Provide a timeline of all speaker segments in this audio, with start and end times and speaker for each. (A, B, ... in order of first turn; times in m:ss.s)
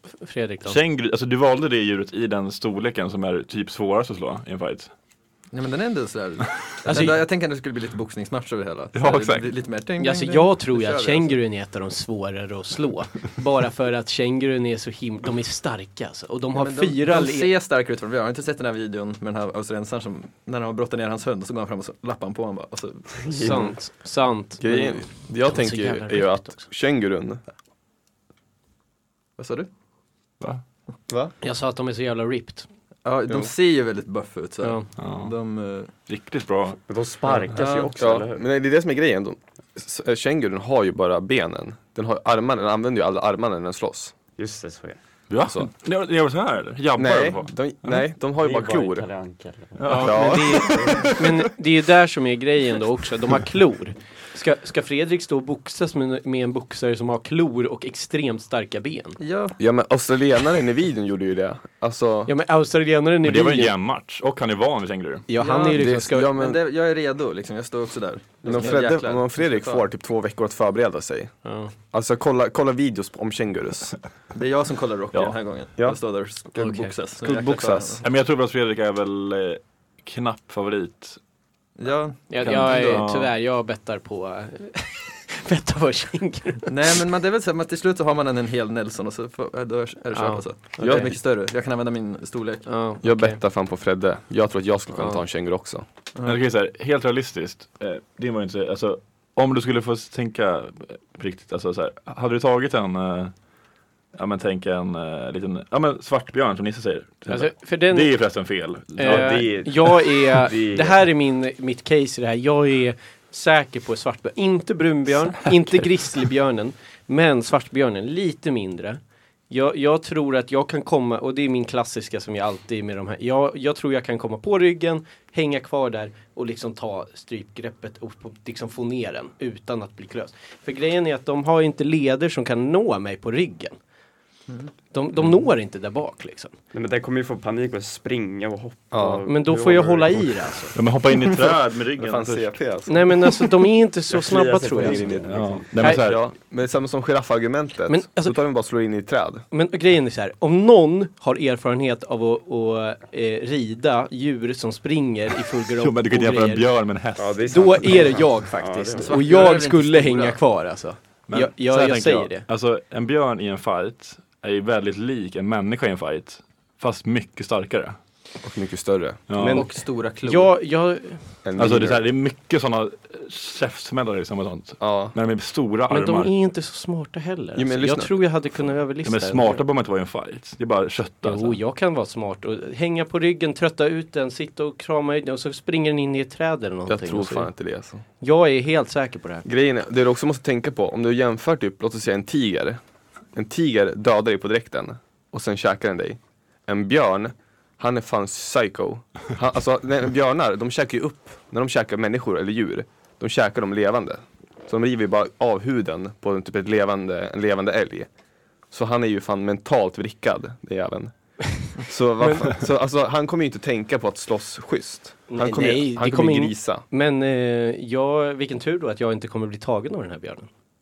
0:00.2-0:00.8 A
0:00.6-0:04.9 B
0:05.5-0:11.3 C
0:06.8-0:07.2 A
0:08.9-0:09.5 B
0:10.0-0:17.5 A
0:16.5-0:23.4 C
0:23.3-0:23.7 D
0:23.3-0:26.6 A
0:23.4-0:23.8 E
0:24.6-0:27.4 E
0:29.4-0:29.7 C
0:31.4-0:32.7 A
0:33.0-0:35.9 C
0:34.6-0:34.9 A
0:35.0-0:35.3 B
0:36.1-0:36.8 B
0:36.9-0:38.5 D
0:37.5-0:37.9 C
0:37.9-0:44.1 E
0:44.4-0:45.0 D
0:45.3-0:48.1 B
0:46.9-0:49.0 E
0:48.4-0:51.0 D
0:49.8-0:51.2 B
0:49.9-0:59.2 A
0:49.9-0:51.0 E
0:59.2-0:59.6 C
0:59.6-1:02.3 E
1:02.3-1:03.7 A
1:03.2-1:05.3 B
1:05.3-1:06.3 A
1:05.4-1:09.9 C
1:05.6-1:06.6 E
1:08.4-1:11.4 E
1:11.4-1:11.7 A
1:11.9-1:13.9 E
1:14.3-1:18.0 C
1:15.1-1:15.4 B
1:16.5-1:18.0 E
1:18.0-1:21.2 B
1:21.8-1:23.0 C
1:22.3-1:26.9 A
1:22.4-1:23.3 B
1:26.7-1:32.7 C
1:30.1-1:31.1 A
1:30.8-1:31.1 E
1:32.6-1:33.4 A
1:33.0-1:35.8 E
1:34.9-1:35.2 A
1:36.2-1:43.3 B
1:44.1-1:49.7 B
1:47.3-1:48.2 A
1:49.0-2:13.8 A
1:49.0-1:51.0 D
2:14.9-2:16.5 A
2:16.7-2:20.3 D
2:18.9-2:19.2 E
2:19.3-2:20.8 A
2:20.7-2:22.6 B
2:21.9-2:23.4 E
2:22.9-2:25.2 A
2:24.1-2:25.8 D
2:24.7-2:29.4 E
2:25.3-2:26.2 B
2:25.8-2:26.1 A
2:27.9-2:28.4 A
2:29.5-2:36.7 A
2:35.8-2:37.5 B
2:37.2-2:39.4 D
2:37.5-2:42.4 A
2:39.0-2:40.4 C
2:41.3-2:48.0 B
2:48.4-2:49.2 E
2:49.3-2:49.7 B
2:49.3-2:51.4 A
2:49.5-2:50.5 C
2:51.4-2:52.0 E
2:51.6-2:56.3 B
2:54.8-2:55.1 E
2:55.9-2:59.6 A
2:57.6-2:58.2 E
2:59.0-3:01.6 B
3:01.2-3:07.5 A
3:06.9-3:08.0 E
3:08.2-3:09.4 A
3:09.4-3:12.8 E
3:13.3-3:28.1 E
3:28.7-3:36.8 E
3:35.3-3:40.5 A